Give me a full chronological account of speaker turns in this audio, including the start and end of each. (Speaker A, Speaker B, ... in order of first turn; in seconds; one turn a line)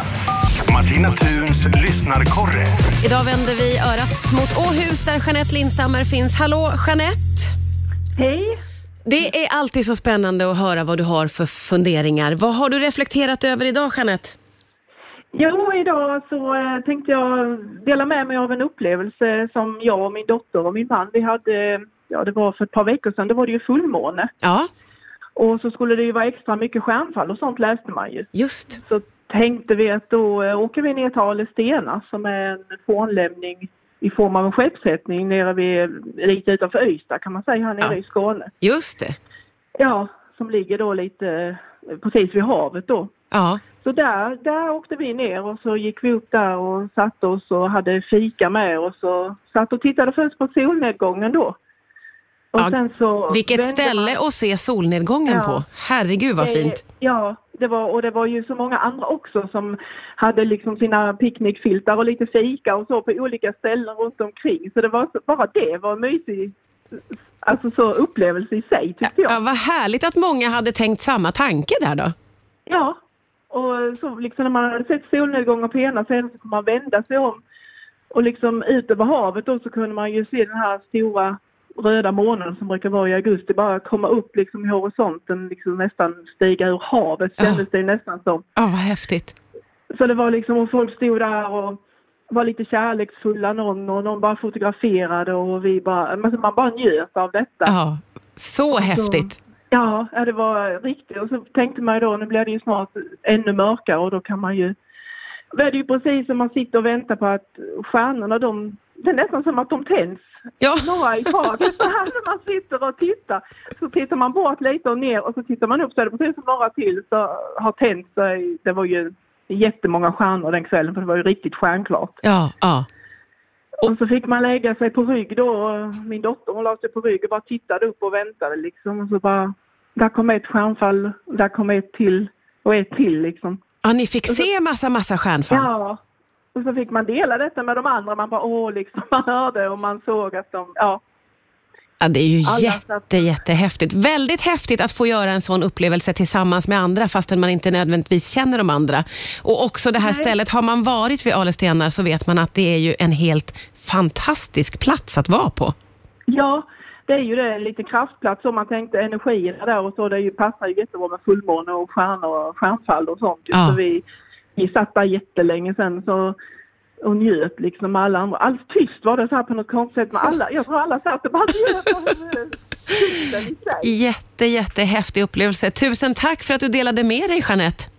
Speaker A: 0.7-2.8
Speaker B: 3.0-7.5
Speaker C: 8.2-8.6
Speaker B: 9.1-14.3
Speaker C: 15.3-24.3
Speaker B: 24.4-24.7
Speaker C: 25.4-38.5
Speaker B: 28.3-28.8
Speaker B: 38.6-39.2
Speaker C: 39.8-43.1
Speaker B: 43.3-43.6
Speaker C: 43.8-51.5
Speaker C: 52.5-54.2
Speaker B: 53.3-56.8
Speaker C: 55.2-55.6
Speaker C: 56.4-66.5
Speaker C: 67.4-69.4
Speaker B: 69.1-72.1
Speaker C: 72.7-73.0
Speaker C: 73.5-77.4
Speaker C: 78.1-88.4
Speaker B: 87.4-87.6
Speaker B: 88.5-89.3
Speaker C: 89.9-91.8
Speaker C: 92.3-97.7
Speaker B: 97.6-99.3
Speaker C: 98.7-104.8
Speaker C: 105.5-122.2
Speaker B: 110.6-111.4
Speaker B: 122.2-122.8
Speaker C: 123.8-133.6
Speaker B: 133.8-135.7
Speaker C: 135.5-136.0
Speaker C: 136.5-141.0
Speaker B: 142.0-155.7
Speaker C: 142.4-143.4
Speaker C: 150.0-150.3
Speaker C: 156.3-164.0
Speaker B: 163.5-163.8
Speaker C: 164.6-166.3
Speaker C: 167.0-173.9
Speaker B: 173.8-177.9